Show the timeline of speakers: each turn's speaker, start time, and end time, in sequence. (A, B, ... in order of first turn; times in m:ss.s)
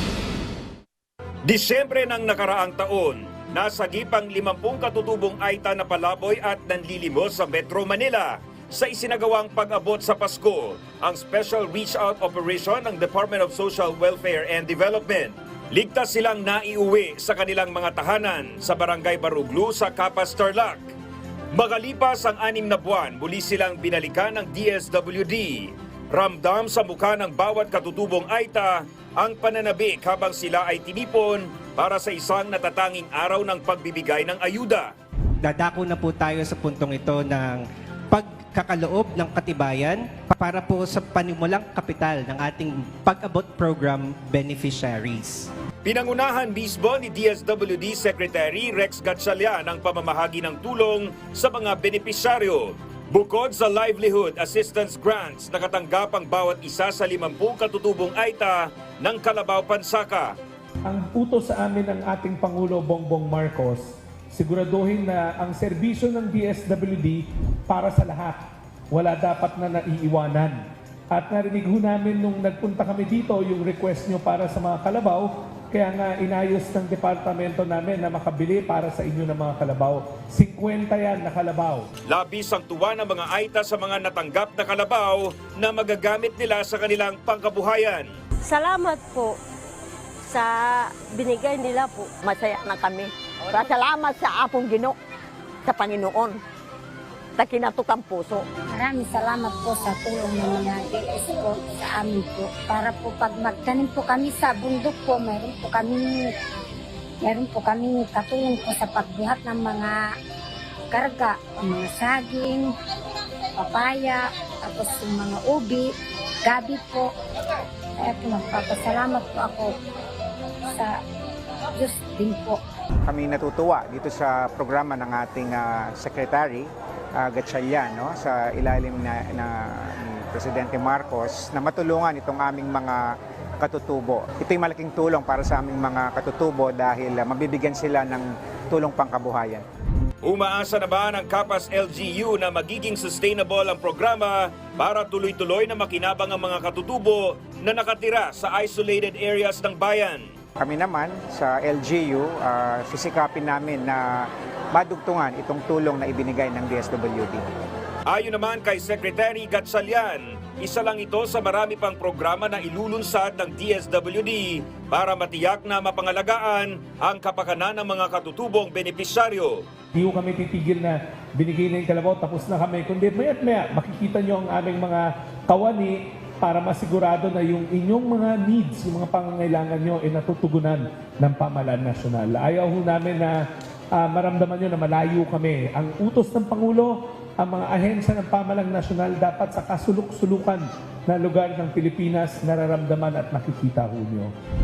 0:01.5-0:20.9 A
0:21.6-0:34.9 A
0:35.4-0:45.5 B
0:45.8-1:00.4 A
1:00.8-1:21.9 C
1:22.1-1:28.1 A
1:28.4-1:29.4 D
1:30.3-1:32.2 D
1:32.2-1:35.0 E
1:35.7-1:36.4 E
1:37.4-1:38.4 E
1:38.7-1:46.3 F
1:47.2-1:50.0 F
1:50.9-1:52.7 F
1:53.6-1:55.9 F
1:56.4-1:57.1 F
1:58.0-1:59.7 F
2:00.7-2:01.0 F
2:01.7-2:02.6 F
2:03.0-2:19.6 G
2:20.2-2:30.3 A
2:30.6-2:37.5 G
2:38.1-2:49.6 A
2:49.9-3:14.3 C